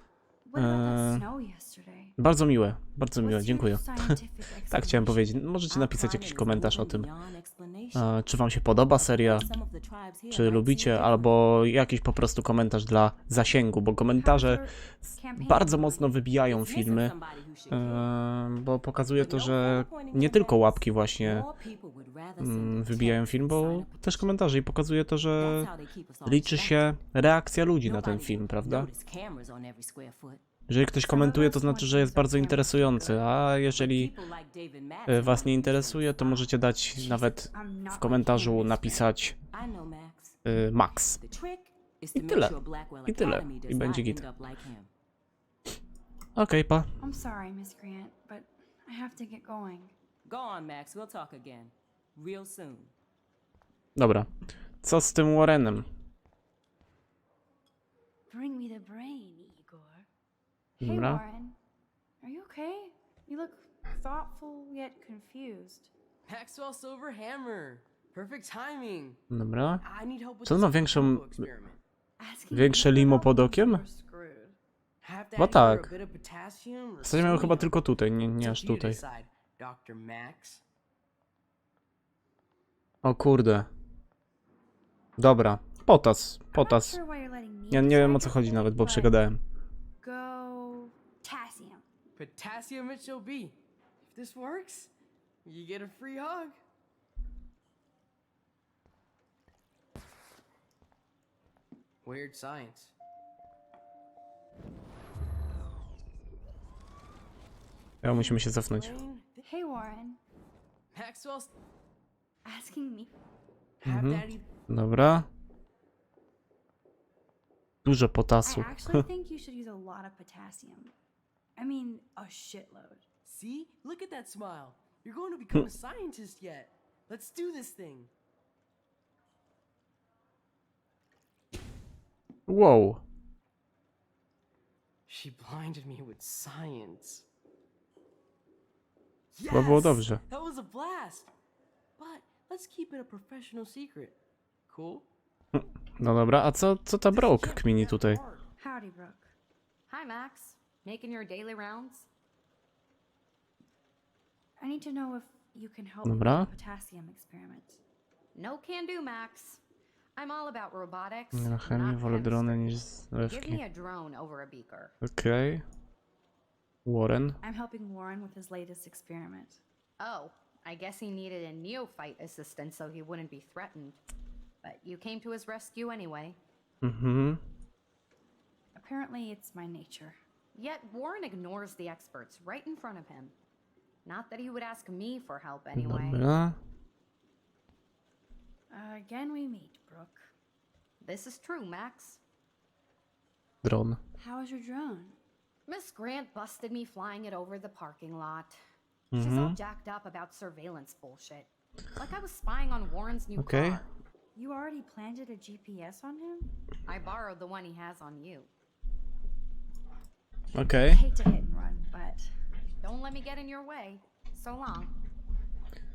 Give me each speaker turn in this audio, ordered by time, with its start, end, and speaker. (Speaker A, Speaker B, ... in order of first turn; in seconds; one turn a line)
Speaker A: 0.5-2.2
Speaker B: 0.6-1.2
Speaker B: 2.2-4.2
Speaker A: 3.2-5.4
Speaker B: 4.7-7.1
Speaker C: 5.7-8.1
Speaker B: 8.0-9.5
Speaker C: 9.0-11.3
Speaker B: 10.3-14.6
Speaker A: 14.2-16.2
Speaker B: 15.4-17.1
Speaker C: 16.5-18.1
Speaker B: 17.7-21.5
Speaker C: 19.2-24.4
Speaker B: 22.4-25.7
Speaker C: 25.4-26.9
Speaker B: 26.3-28.9
Speaker C: 27.8-30.4
Speaker B: 30.7-34.1
Speaker A: 31.1-33.2
Speaker C: 33.8-36.5
Speaker B: 35.1-39.4
Speaker A: 37.0-39.1
Speaker C: 39.5-40.4
Speaker B: 40.5-41.2
Speaker C: 41.2-44.9
Speaker B: 42.1-42.5
Speaker B: 43.1-44.2
Speaker B: 46.4-46.9
Speaker A: 47.0-49.9
Speaker C: 50.2-52.9
Speaker B: 54.0-54.3
Speaker B: 54.8-55.9
Speaker A: 58.3-60.1
Speaker A: 60.8-61.6
Speaker B: 60.8-61.2
Speaker A: 62.2-65.9
Speaker D: 66.3-69.2
Speaker B: 69.3-69.8
Speaker D: 69.8-71.8
Speaker B: 70.4-71.5
Speaker A: 72.2-74.6
Speaker B: 72.5-73.8
Speaker D: 75.0-77.8
Speaker B: 75.4-75.9
Speaker B: 77.0-79.0
Speaker D: 78.4-80.6
Speaker B: 83.0-83.7
Speaker B: 85.2-87.0
Speaker A: 86.5-89.2
Speaker B: 87.7-89.4
Speaker A: 90.0-91.9
Speaker D: 92.2-94.9
Speaker D: 95.4-96.6
Speaker D: 102.0-102.9
Speaker B: 108.0-109.0
Speaker D: 108.1-109.5
Speaker A: 109.4-110.2
Speaker D: 110.9-111.5
Speaker A: 112.5-113.1
Speaker D: 113.8-114.5
Speaker B: 113.8-115.3
Speaker B: 117.8-119.0
Speaker A: 118.4-120.9
Speaker A: 121.6-123.0
Speaker D: 123.2-128.1
Speaker B: 132.5-133.0
Speaker D: 135.1-137.2
Speaker D: 139.3-141.3
Speaker B: 139.5-140.2
Speaker D: 142.0-144.2
Speaker D: 144.7-145.1
Speaker B: 145.5-148.2
Speaker D: 147.1-148.5
Speaker A: 148.6-149.3
Speaker E: 149.9-152.1
Speaker A: 154.6-157.8
Speaker B: 156.1-156.5
Speaker E: 158.3-159.6
Speaker E: 160.2-165.0
Speaker B: 161.3-163.6
Speaker B: 165.0-165.6
Speaker B: 166.8-167.4
Speaker A: 167.4-169.6
Speaker E: 170.0-174.0
Speaker E: 174.6-176.4
Speaker B: 176.8-177.4
Speaker A: 178.8-180.2
Speaker E: 180.5-183.3
Speaker E: 184.1-186.2
Speaker B: 185.8-186.6
Speaker A: 188.7-190.3
Speaker E: 191.0-192.2
Speaker B: 193.6-194.0
Speaker A: 194.2-195.2
Speaker E: 195.7-198.6
Speaker B: 199.1-199.6
Speaker E: 199.2-203.8
Speaker B: 203.4-203.8
Speaker A: 204.3-206.5
Speaker E: 206.9-208.5
Speaker B: 210.6-211.0
Speaker A: 210.8-212.3
Speaker E: 212.8-214.9